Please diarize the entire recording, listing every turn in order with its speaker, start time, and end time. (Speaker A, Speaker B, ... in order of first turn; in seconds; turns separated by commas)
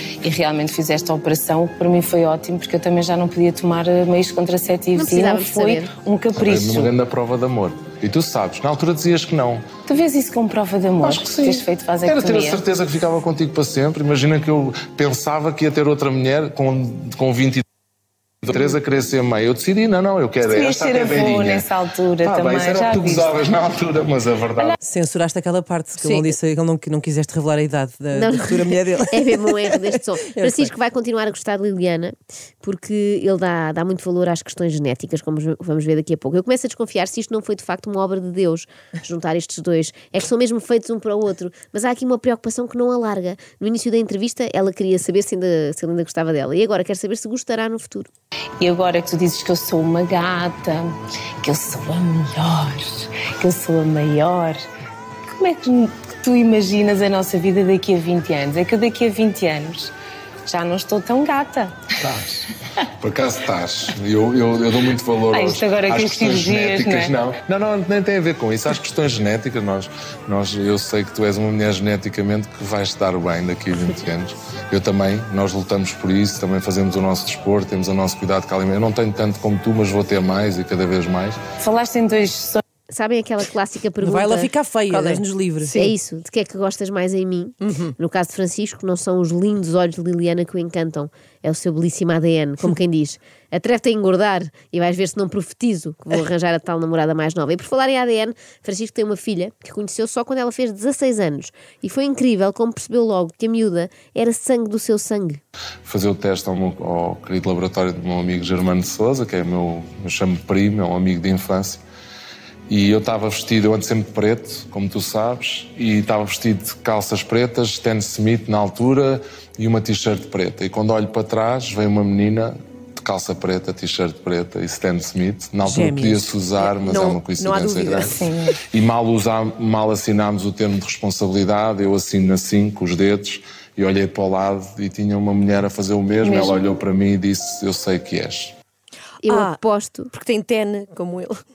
Speaker A: 0.2-6.9, Speaker B: 5.0-5.9, Speaker C: 6.4-9.6, Speaker A: 9.9-12.6, Speaker C: 11.0-17.6, Speaker C: 18.4-21.7, Speaker A: 20.4-23.3, Speaker C: 22.2-24.8, Speaker D: 24.8-30.0, Speaker E: 26.0-26.4, Speaker B: 28.1-48.1, Speaker E: 30.4-30.7, Speaker A: 48.6-54.6, Speaker A: 55.3-59.9, Speaker A: 60.5-61.8, Speaker C: 62.0-81.4, Speaker A: 65.3-67.1, Speaker A: 81.6-82.6, Speaker B: 82.9-84.5, Speaker D: 84.0-85.7, Speaker E: 84.9-85.9, Speaker B: 85.8-105.4, Speaker E: 87.6-87.9, Speaker C: 105.8-111.8, Speaker C: 112.7-128.2, Speaker D: 125.6-126.3, Speaker E: 126.6-128.2, Speaker A: 128.2-128.6, Speaker C: 128.7-138.5, Speaker A: 136.2-136.6, Speaker B: 139.2-140.1, Speaker E: 139.2-139.6, Speaker E: 140.1-141.4